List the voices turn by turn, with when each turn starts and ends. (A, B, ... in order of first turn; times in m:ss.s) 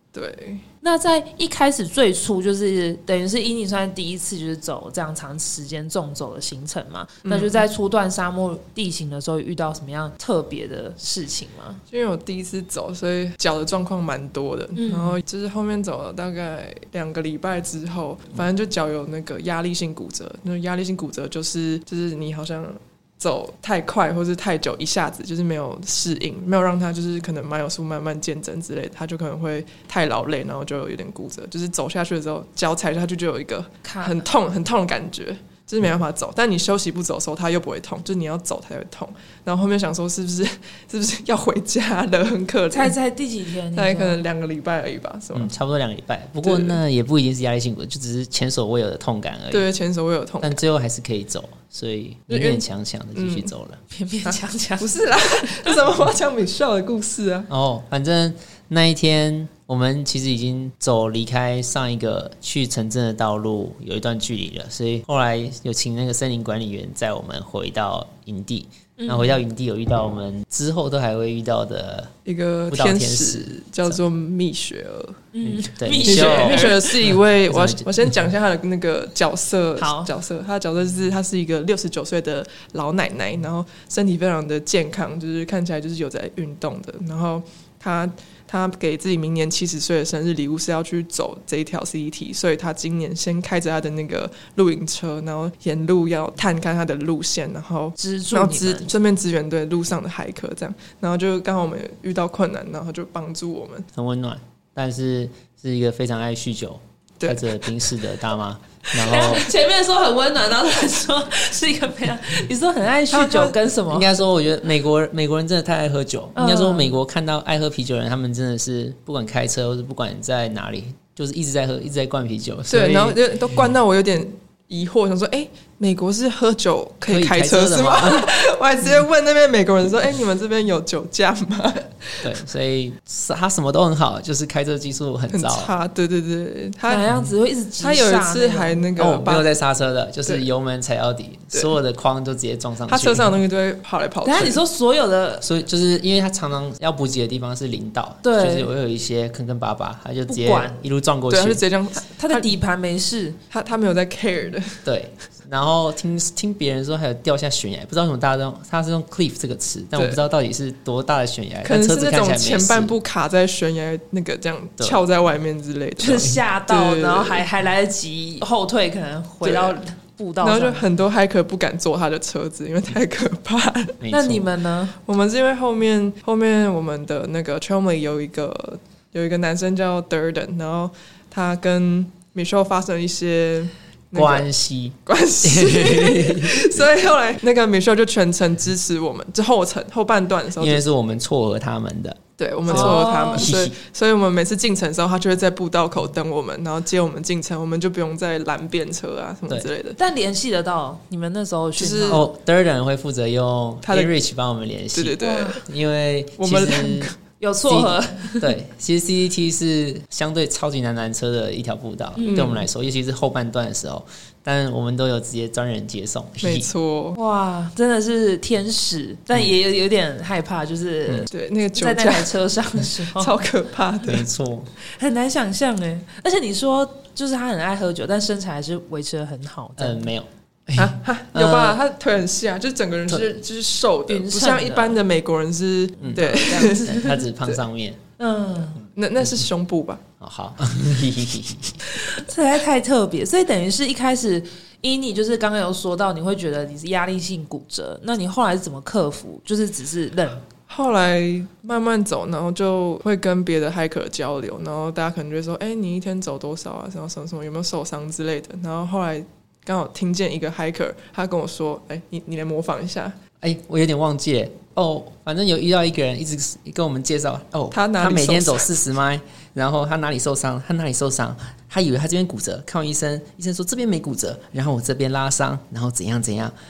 0:00.1-0:00.6 A
0:00.8-0:11.8 B
0:07.2-0:07.6 A
0:11.9-0:42.9 A
0:14.8-0:15.2 B
0:33.8-0:34.2 B
0:42.7-0:44.2 B
0:43.7-0:45.5 A
0:45.3-0:49.7 C
0:46.4-0:46.8 A
0:49.5-0:50.6 A
0:50.4-0:53.8 C
0:52.3-0:53.5 A
0:53.9-0:55.8 B
0:54.2-0:57.5 A
0:57.5-1:12.1 C
1:09.0-1:09.4 B
1:12.2-1:15.2 A
1:12.7-1:14.0 C
1:15.3-1:16.9 B
1:15.4-1:16.8 C
1:16.0-1:43.9 A
1:17.5-1:17.8 C
1:19.8-1:20.1 B
1:38.0-1:38.9 B
1:43.9-1:49.5 C
1:47.2-1:47.4 A
1:48.9-1:54.1 B
1:53.1-1:53.5 A
1:53.9-2:03.2 C
1:56.4-1:56.9 B
2:02.7-2:12.3 A
2:07.1-2:08.3 C
2:12.2-2:15.7 C
2:15.3-2:17.1 A
2:16.8-2:18.9 B
2:17.8-2:19.5 A
2:19.0-2:23.3 C
2:22.8-2:24.6 A
2:24.2-2:25.4 B
2:25.4-2:31.6 C
2:28.2-2:28.7 B
2:30.3-2:30.8 B
2:31.3-2:32.5 A
2:32.0-2:33.4 B
2:33.5-2:34.8 A
2:34.8-2:42.9 C
2:39.9-2:40.2 A
2:41.6-2:47.5 A
2:46.0-2:50.9 B
2:46.1-2:46.4 C
2:49.4-2:49.8 A
2:50.4-2:54.0 A
2:54.0-2:54.5 C
2:54.1-2:54.9 B
2:55.0-3:04.5 A
3:04.1-3:06.9 C
3:05.0-3:10.8 A
3:10.6-3:13.7 C
3:12.4-3:20.0 A
3:12.6-3:13.5 B
3:20.0-3:22.2 B
3:21.8-3:22.2 A
3:22.1-3:27.1 C
3:23.8-3:24.1 A
3:24.9-3:25.6 A
3:25.2-3:25.6 B
3:26.4-3:27.2 A
3:27.4-3:28.6 B
3:27.7-3:36.7 C
3:32.2-3:32.6 B
3:32.3-3:32.5 A
3:36.4-3:37.2 A
3:37.1-3:43.4 B
3:41.3-3:42.4 A
3:43.1-3:44.3 A
3:44.0-3:44.7 C
3:45.0-3:50.1 B
3:49.8-3:51.8 C
3:50.8-3:57.6 A
3:54.1-3:55.0 B
3:56.0-3:57.2 B
3:56.0-3:58.0 C
3:58.2-3:58.8 B
3:59.0-4:00.0 A
4:00.2-4:01.7 C
4:01.9-4:10.4 B
4:10.7-4:23.1 A
4:23.4-4:36.5 C
4:27.7-4:28.7 A